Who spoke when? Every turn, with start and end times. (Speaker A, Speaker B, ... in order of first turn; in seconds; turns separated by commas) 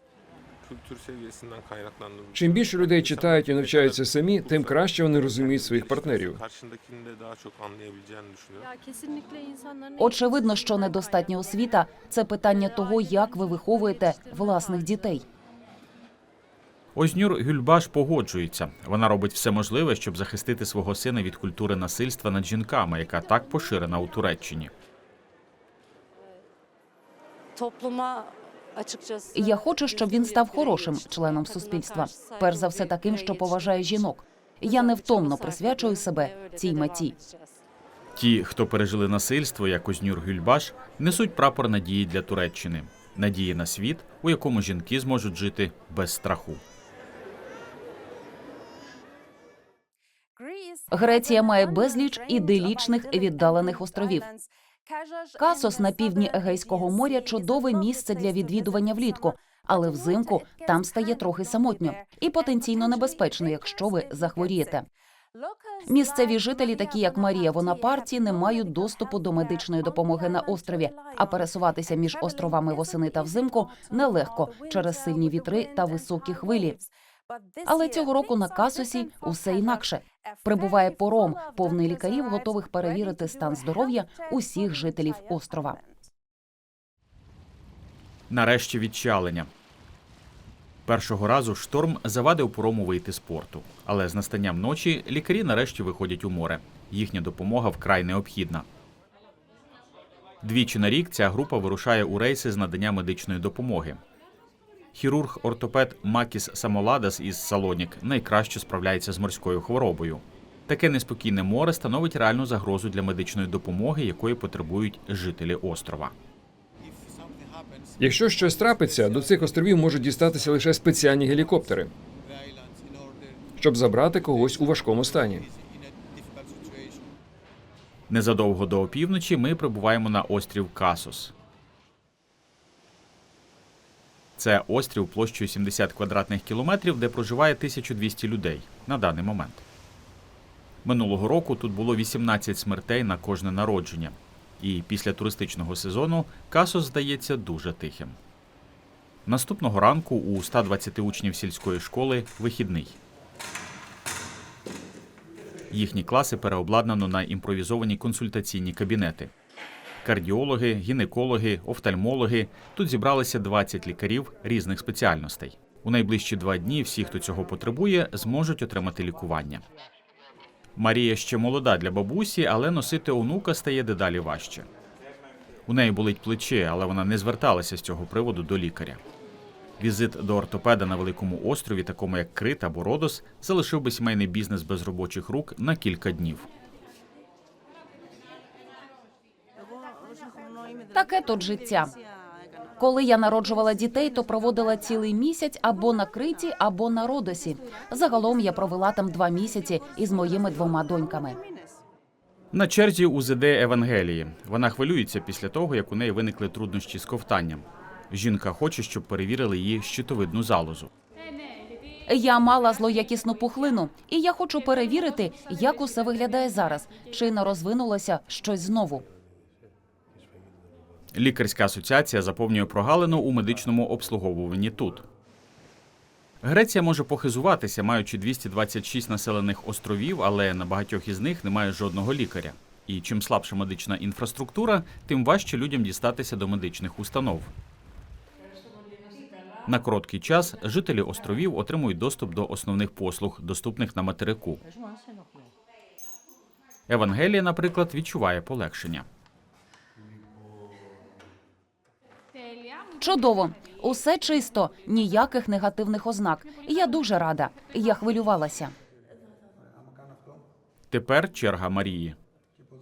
Speaker A: 0.7-2.6, Speaker B: 2.3-6.4, Speaker A: 6.4-8.6, Speaker C: 9.2-9.6, Speaker D: 10.0-15.2, Speaker E: 16.9-24.7, Speaker C: 27.6-28.3, Speaker C: 28.8-29.3, Speaker D: 29.3-37.2, Speaker E: 38.2-46.6, Speaker D: 50.9-54.3, Speaker D: 55.4-64.9, Speaker D: 65.9-76.8, Speaker D: 77.7-85.8, Speaker E: 88.3-89.5, Speaker E: 90.9-98.7, Speaker E: 100.4-104.0, Speaker E: 105.0-116.1, Speaker B: 118.0-121.9, Speaker B: 123.6-125.5, Speaker E: 128.1-131.3, Speaker E: 134.4-139.6, Speaker E: 140.8-148.2, Speaker E: 149.3-153.0, Speaker E: 155.7-159.3, Speaker E: 160.0-169.6, Speaker E: 170.8-174.7, Speaker E: 175.7-179.0, Speaker E: 179.8-186.5, Speaker C: 190.3-190.6, Speaker D: 190.9-191.9, Speaker D: 192.8-201.4, Speaker E: 202.5-210.9, Speaker D: 212.1-219.1, Speaker E: 221.1-225.1, Speaker E: 226.4-237.5, Speaker E: 239.7-244.6, Speaker E: 246.9-249.1, Speaker D: 253.0-258.7, Speaker E: 260.9-262.2